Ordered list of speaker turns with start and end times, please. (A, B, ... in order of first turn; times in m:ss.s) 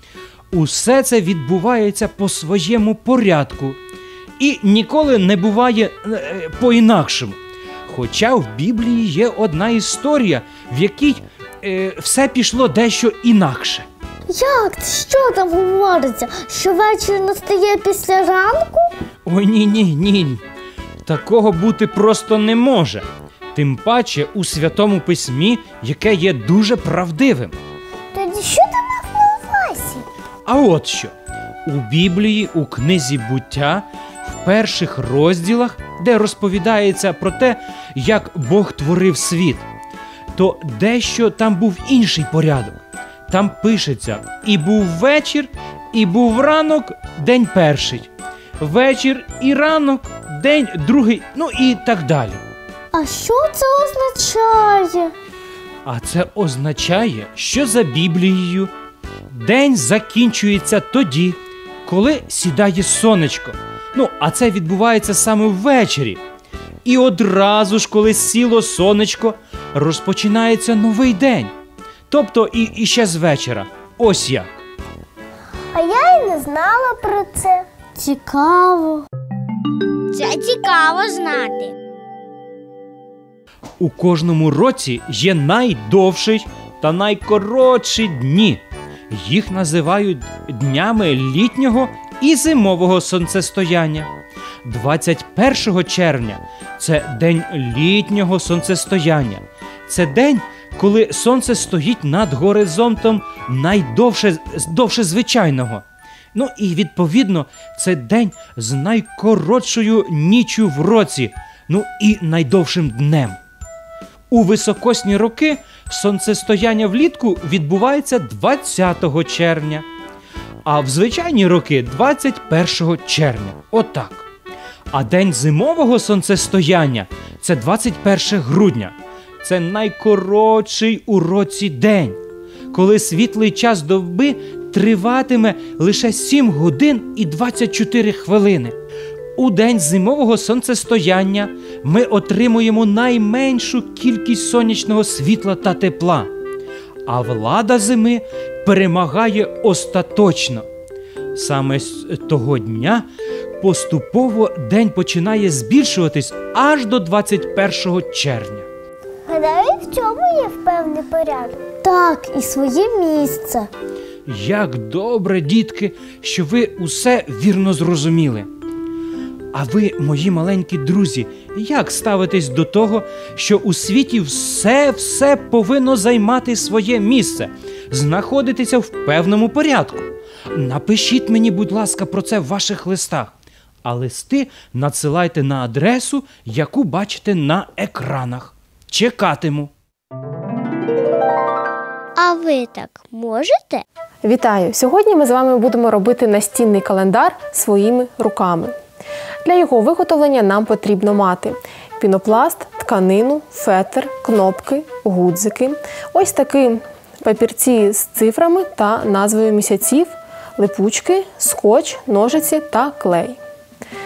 0:00.5-0:03.8 A
0:04.4-0:13.9 A
0:14.3-0:18.9 B
0:19.2-0:20.4 A
0:21.0-0:27.6 A
0:28.1-0:30.0 C
0:30.4-0:31.1 A
0:31.6-0:39.6 A
0:40.3-0:52.4 A
0:52.9-0:55.1 B
0:55.8-0:58.7 A
0:59.3-1:06.2 A
1:06.8-1:11.5 A
1:12.1-1:14.6 A
1:15.7-1:17.7 C
1:18.0-1:19.0 B
1:20.1-1:21.7 D
1:23.8-1:34.1 A
1:34.6-1:53.4 A
1:54.3-1:59.8 A
2:00.6-2:04.2 A
2:04.9-2:12.2 A
2:12.7-2:18.8 A
2:19.4-2:26.3 A
2:27.1-2:30.6 A
2:31.3-2:33.1 A
2:33.6-2:38.7 A
2:39.2-2:41.7 C
2:41.8-2:43.7 B
2:44.2-2:48.5 A
2:49.5-3:03.3 A
3:03.8-3:09.7 A
3:12.2-3:13.8 D
3:14.2-3:18.8 E
3:19.4-3:33.4 E